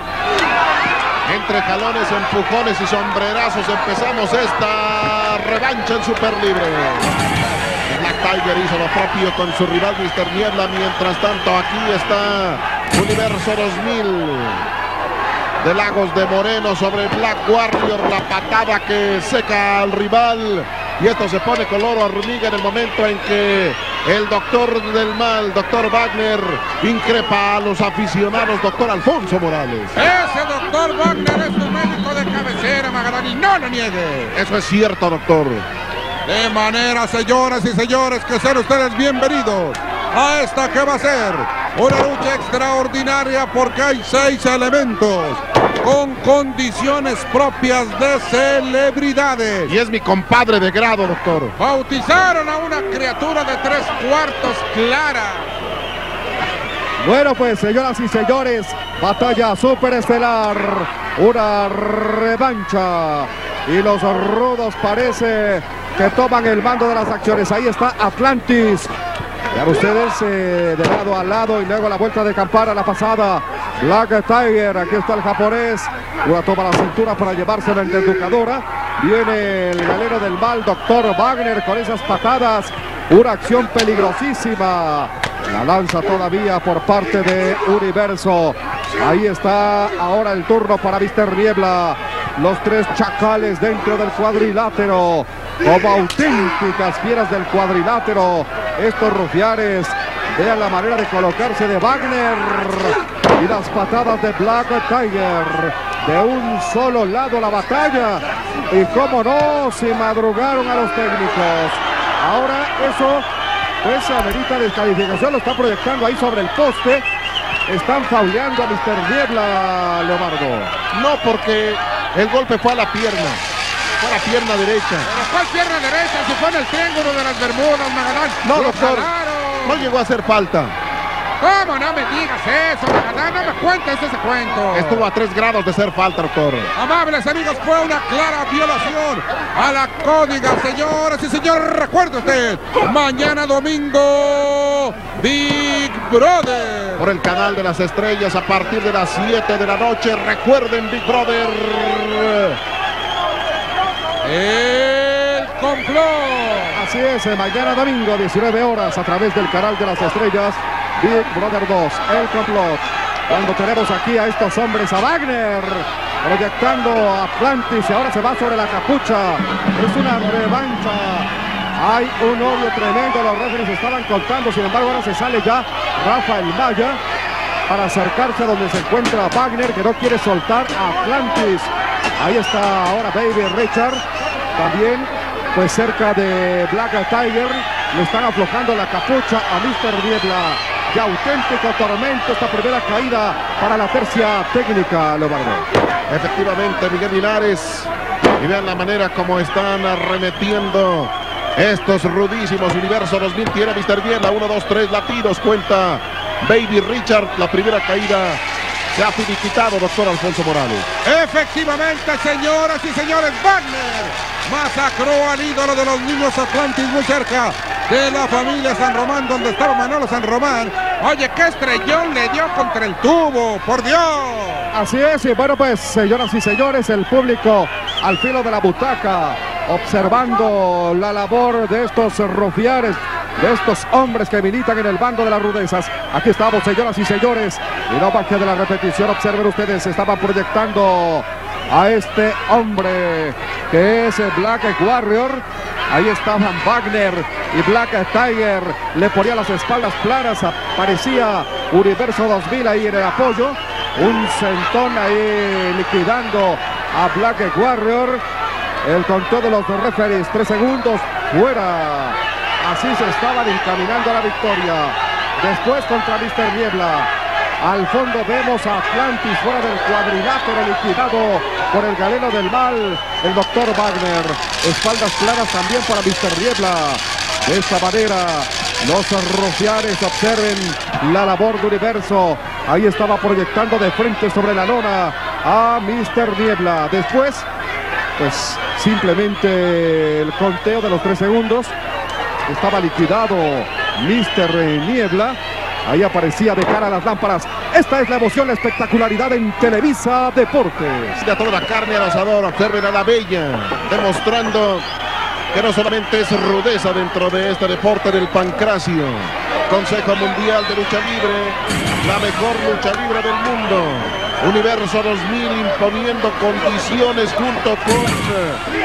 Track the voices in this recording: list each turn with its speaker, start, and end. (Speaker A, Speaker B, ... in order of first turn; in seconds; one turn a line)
Speaker A: 1.2-7.1
Speaker A: 7.9-14.7
Speaker A: 15.6-29.9
Speaker B: 29.9-34.4
Speaker A: 34.3-35.6
Speaker B: 36.2-49.7
Speaker A: 49.7-51.5
Speaker B: 51.6-55.5
Speaker C: 57.0-68.9
Speaker C: 69.5-113.3
Speaker C: 113.8-117.0
Speaker C: 117.7-120.7
Speaker A: 120.9-123.4
Speaker A: 124.0-125.1
Speaker B: 125.0-129.9
Speaker A: 128.4-129.1
Speaker A: 129.6-130.7
Speaker B: 131.4-135.1
Speaker A: 134.7-136.7
Speaker B: 136.7-147.0
Speaker A: 147.0-152.6
Speaker B: 154.2-156.8
Speaker C: 156.7-177.0
Speaker C: 177.7-184.0
Speaker C: 184.6-195.6
Speaker A: 196.1-208.4
Speaker A: 208.9-210.9
Speaker B: 211.0-224.7
Speaker C: 224.7-258.2
Speaker C: 258.8-267.1
Speaker C: 267.6-287.4
Speaker C: 288.2-291.7
Speaker C: 292.5-301.2
Speaker A: 301.2-304.8
Speaker A: 305.5-318.6